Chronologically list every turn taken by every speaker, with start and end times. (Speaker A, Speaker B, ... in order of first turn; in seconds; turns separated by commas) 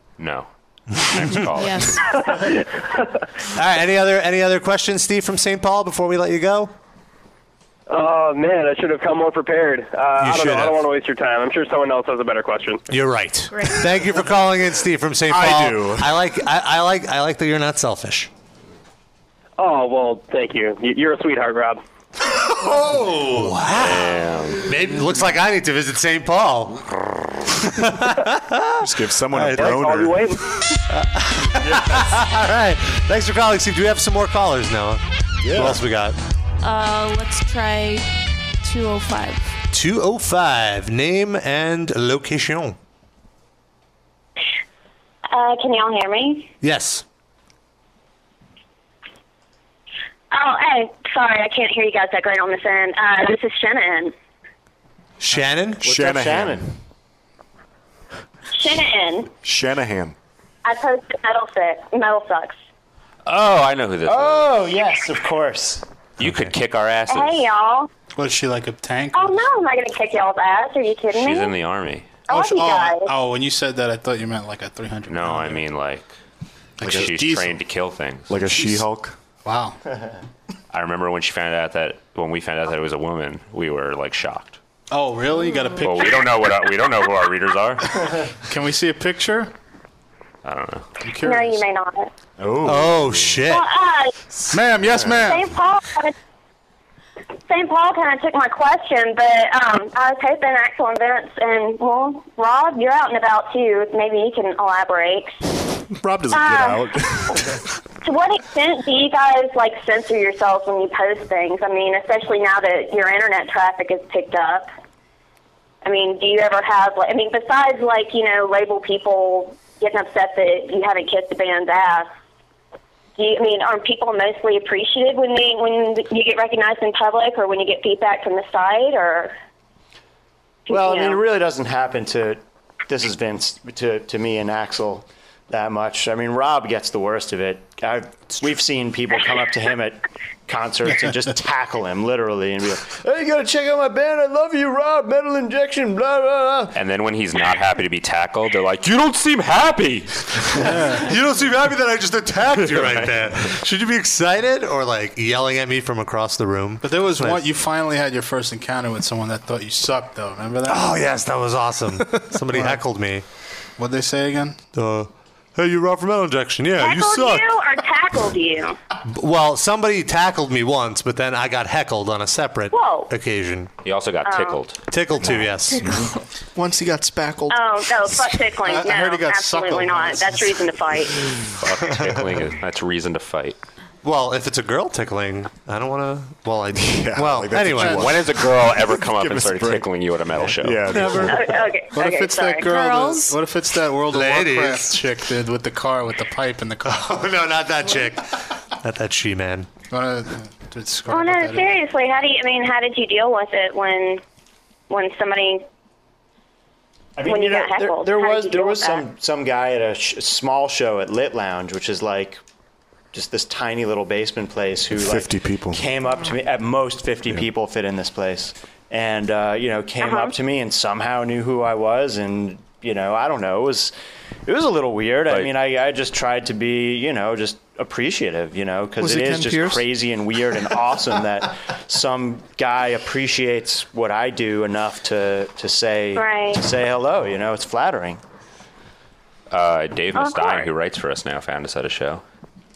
Speaker A: 0.2-2.0, Speaker B: 1.5-2.0, Speaker C: 3.5-6.7, Speaker D: 7.9-12.8, Speaker C: 10.2-10.8, Speaker C: 12.9-18.3, Speaker B: 13.5-13.8, Speaker E: 15.3-16.2, Speaker D: 19.6-21.8, Speaker C: 22.6-26.8, Speaker A: 23.7-24.7, Speaker C: 27.7-29.9, Speaker E: 28.8-30.3, Speaker D: 29.6-30.4, Speaker C: 30.9-36.2, Speaker E: 31.6-32.0, Speaker E: 35.4-35.8, Speaker B: 36.6-38.1, Speaker B: 38.6-39.5, Speaker C: 39.7-42.8, Speaker F: 45.3-46.5, Speaker C: 46.6-47.0, Speaker F: 50.3-54.1, Speaker C: 55.2-55.8, Speaker G: 55.8-56.7, Speaker E: 55.8-56.7, Speaker F: 58.5-59.3, Speaker E: 59.4-60.1, Speaker F: 60.6-62.6, Speaker A: 63.2-64.5, Speaker G: 64.0-65.8, Speaker A: 66.2-67.4, Speaker F: 67.1-67.9, Speaker H: 68.2-69.4, Speaker F: 69.1-71.5, Speaker A: 71.1-72.2, Speaker F: 72.3-73.1, Speaker H: 72.3-75.6, Speaker A: 75.1-76.1, Speaker A: 76.8-78.4, Speaker E: 76.8-77.1, Speaker H: 76.8-77.5, Speaker E: 78.3-79.1, Speaker H: 79.4-79.8, Speaker A: 80.7-84.6, Speaker H: 84.9-86.2, Speaker A: 85.8-88.0, Speaker H: 88.5-89.5, Speaker A: 90.4-90.9, Speaker H: 91.0-91.6, Speaker F: 91.2-92.1, Speaker E: 92.4-93.4, Speaker C: 92.6-93.7, Speaker F: 93.5-94.1, Speaker H: 94.5-95.5, Speaker F: 95.2-96.1, Speaker F: 97.5-105.4, Speaker E: 106.0-107.6, Speaker F: 106.3-106.9, Speaker F: 108.0-114.7, Speaker F: 115.8-122.1, Speaker F: 123.2-129.3, Speaker F: 130.7-131.2, Speaker G: 130.7-146.7, Speaker A: 146.7-150.3, Speaker H: 150.7-151.0, Speaker C: 150.9-157.4, Speaker H: 156.8-160.9, Speaker C: 160.7-163.2, Speaker H: 162.5-162.8, Speaker H: 163.8-164.6, Speaker C: 164.7-167.5, Speaker F: 166.8-168.8, Speaker C: 169.1-173.7, Speaker F: 172.7-173.1, Speaker A: 173.8-174.8, Speaker F: 174.2-174.6, Speaker C: 174.9-175.9, Speaker E: 175.2-176.1, Speaker I: 176.5-178.1, Speaker F: 177.5-181.2, Speaker H: 178.6-180.6, Speaker A: 181.6-183.6, Speaker C: 184.0-188.2, Speaker E: 186.7-189.9, Speaker A: 187.8-191.3, Speaker E: 190.5-191.5, Speaker C: 190.9-191.4, Speaker F: 191.3-192.7, Speaker H: 191.9-197.1, Speaker B: 192.6-193.4, Speaker C: 194.1-195.0, Speaker C: 196.8-199.7, Speaker H: 199.9-201.8, Speaker F: 201.1-204.2, Speaker F: 204.9-205.6, Speaker G: 207.2-212.4, Speaker F: 207.2-209.0, Speaker G: 213.1-223.9, Speaker E: 214.9-215.8, Speaker F: 220.0-220.3, Speaker G: 224.5-238.2, Speaker I: 229.0-229.9, Speaker F: 236.1-236.6, Speaker A: 239.5-242.2, Speaker F: 240.1-240.7